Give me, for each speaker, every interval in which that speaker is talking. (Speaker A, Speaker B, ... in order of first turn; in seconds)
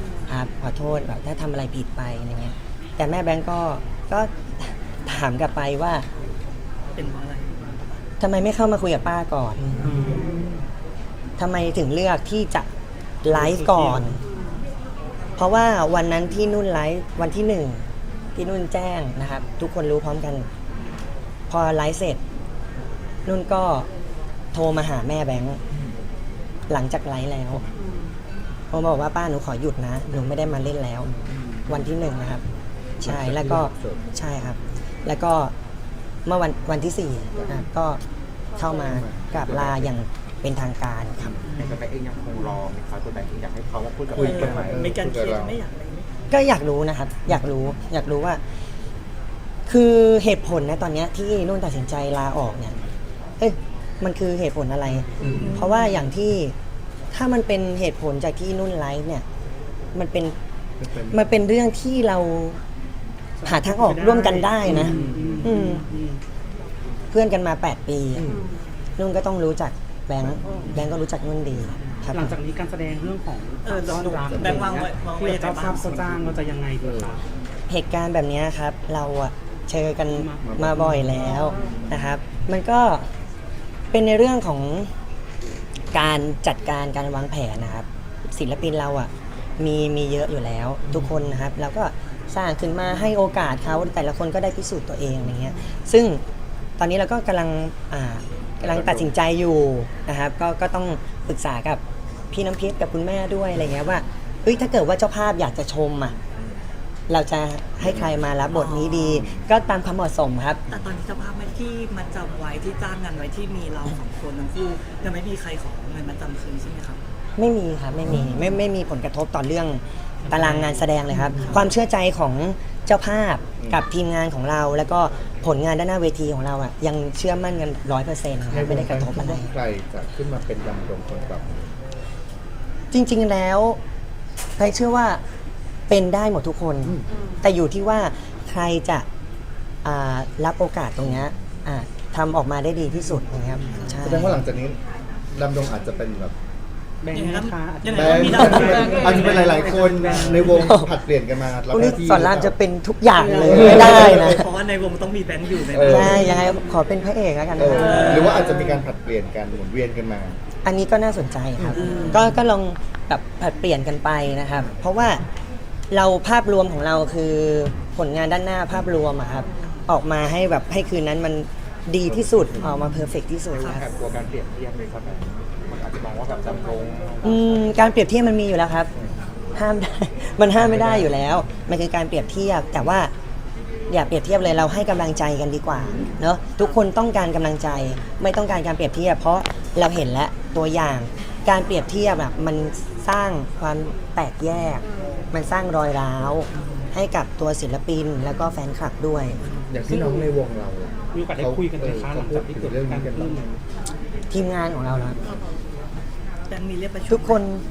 Speaker A: 0.3-6.0, 8.2-9.6, 11.4-12.7, 13.2-14.2, 15.4-17.8, 18.3-20.4, 21.5-22.2, 23.2-23.9, 24.5-25.6, 26.7-27.6, 28.7-31.1, 31.7-32.4, 33.0-35.5, 36.2-38.0, 38.6-41.3, 46.3-48.4, 49.7-52.7, 53.4-56.5, 57.1-59.2, 59.9-60.3, 61.1-62.6, 63.4-65.8, 67.1-68.3, 69.0-72.4, 77.7-83.1, 83.9-84.9, 85.9-96.2, 96.8-106.2, 107.1-110.6, 117.4-129.5, 132.9-133.8, 134.6-135.2, 135.9-139.1, 139.8-144.4, 150.5-150.9, 151.7-154.4, 155.9-158.5, 160.6-165.2, 165.9-173.8, 177.2-178.9, 179.5-183.1, 183.9-199.4, 204.3-205.2, 207.1-207.6
Speaker B: 6.9-8.0, 41.5-41.8, 44.1-46.1, 55.3-55.9, 73.6-76.0, 108.5-109.1, 110.7-117.0, 121.4-121.6, 143.6-144.0, 147.1-150.5, 153.6-156.4, 157.7-158.8, 161.7-162.2, 173.5-173.8, 206.5-207.4
Speaker C: 9.6-10.5, 31.1-31.7, 33.0-34.0, 38.8-39.9, 44.1-45.5, 55.2-55.5, 60.8-61.3, 64.6-65.5, 68.2-68.4, 70.2-70.9, 74.2-74.9, 76.1-77.2, 80.4-81.0, 98.6-99.1, 107.8-108.2, 109.0-109.5, 128.5-131.6, 141.1-141.3, 143.9-144.8, 145.3-146.3, 147.9-152.5, 153.3-154.4, 155.7-156.3, 157.5-160.4, 161.6-161.8, 172.1-172.6, 180.6-181.1, 199.7-203.6
Speaker D: 9.8-10.4, 13.3-14.2, 63.4-66.2, 72.1-77.2, 80.1-81.5, 120.3-121.5, 147.0-150.7, 153.2-154.0, 199.8-200.3, 201.1-203.4
Speaker E: 41.5-44.8, 173.7-177.4